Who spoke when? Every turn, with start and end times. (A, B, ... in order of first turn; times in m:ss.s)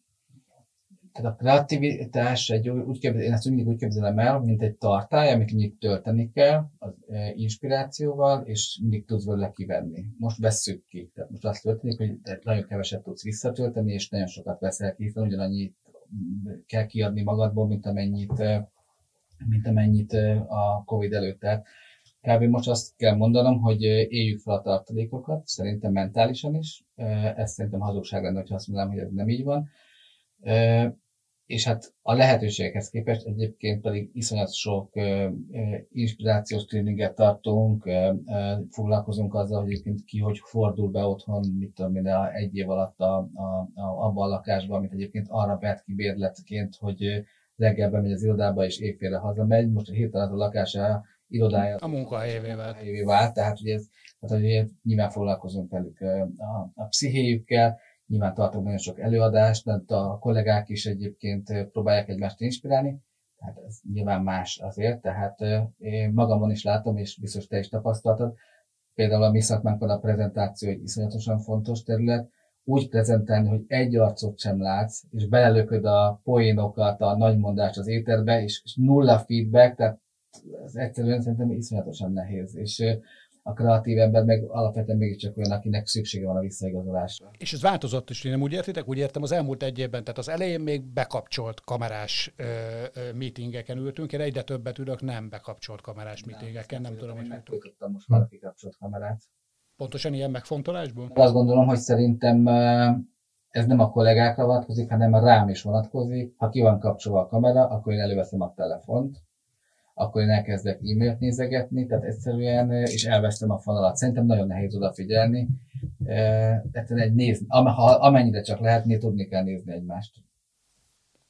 0:01.1-0:18.6 A
0:19.4-0:21.6 A
0:22.2-0:29.6 A
0:30.4-0:30.9 A
0:31.5-1:08.3 A
0:51.8-0:52.8 B
1:09.0-1:27.3 A
1:27.4-1:37.6 B
1:36.2-1:39.2 A
1:39.8-1:41.1 B
1:41.1-1:49.2 A
1:50.0-1:55.5 A
1:56.0-2:00.2 A